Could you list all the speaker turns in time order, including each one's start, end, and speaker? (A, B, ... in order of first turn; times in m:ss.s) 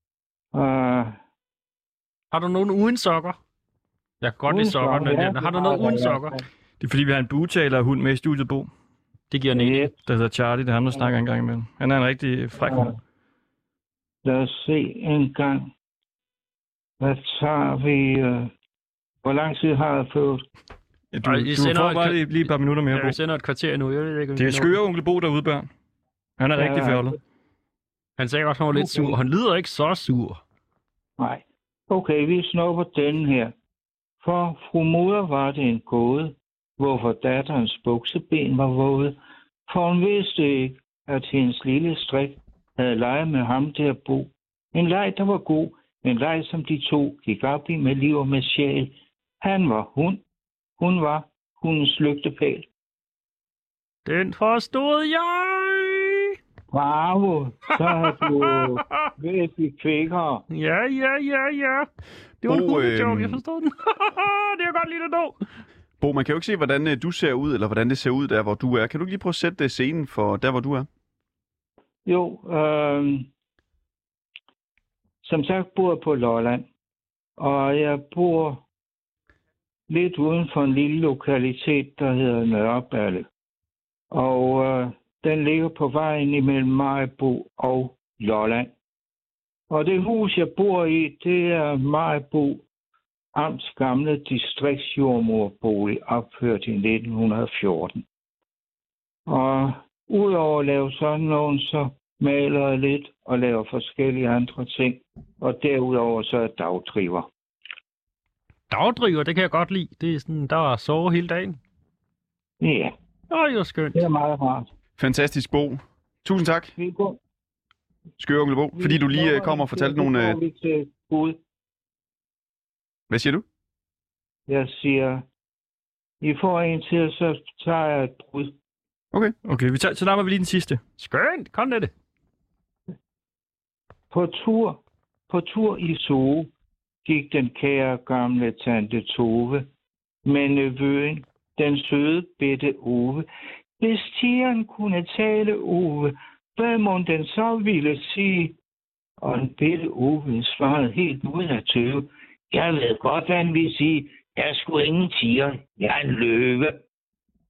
0:00.5-0:01.2 A
0:02.3-0:03.4 B
0:04.2-0:06.4 B
0:04.5-0:06.4 A
0:06.8-0:08.7 C
0:09.3-0:09.9 B
0:09.5-0:10.0 A
0:10.0-0:12.9 C
0:12.6-0:13.0 A
0:14.2-0:15.7 A
0:17.0-0:18.5 A
0:19.2-0:20.4 A
0:21.1-0:23.2 C
0:21.2-0:24.8 B
0:24.4-0:25.7 C
0:26.4-0:27.2 C
0:26.6-0:27.2 A
0:28.2-0:30.4 B
0:28.7-0:29.2 A
0:31.2-0:33.5 A
0:34.2-0:50.2 A
0:50.8-0:52.7 A
0:54.0-0:56.4 B
0:56.7-1:00.4 A
0:57.9-0:59.1 B
1:00.5-1:01.9 B
1:02.4-1:05.4 B
1:02.4-1:03.4 D
1:06.0-1:10.9 D
1:12.1-1:13.3 A
1:15.2-1:16.7 A
1:17.4-1:18.6 A
1:19.9-1:23.3 A
1:24.1-1:28.7 A
1:29.7-1:32.6 A
1:33.3-1:38.0 A
1:39.3-1:47.3 A
1:48.7-1:51.6 B
1:52.6-1:52.9 A
1:53.3-1:54.0 B
1:53.9-1:54.7 A
1:55.0-1:56.7 D
1:56.8-1:57.2 A
1:58.2-2:00.4 D
1:58.7-2:01.4 A
2:03.1-2:03.4 D
2:04.5-2:05.2 A
2:06.2-2:08.5 A
2:09.4-2:10.8 C
2:11.0-2:11.9 B
2:14.1-2:16.5 A
2:17.0-2:19.7 A
2:20.2-2:23.3 A
2:23.8-2:28.6 A
2:29.2-2:36.8 A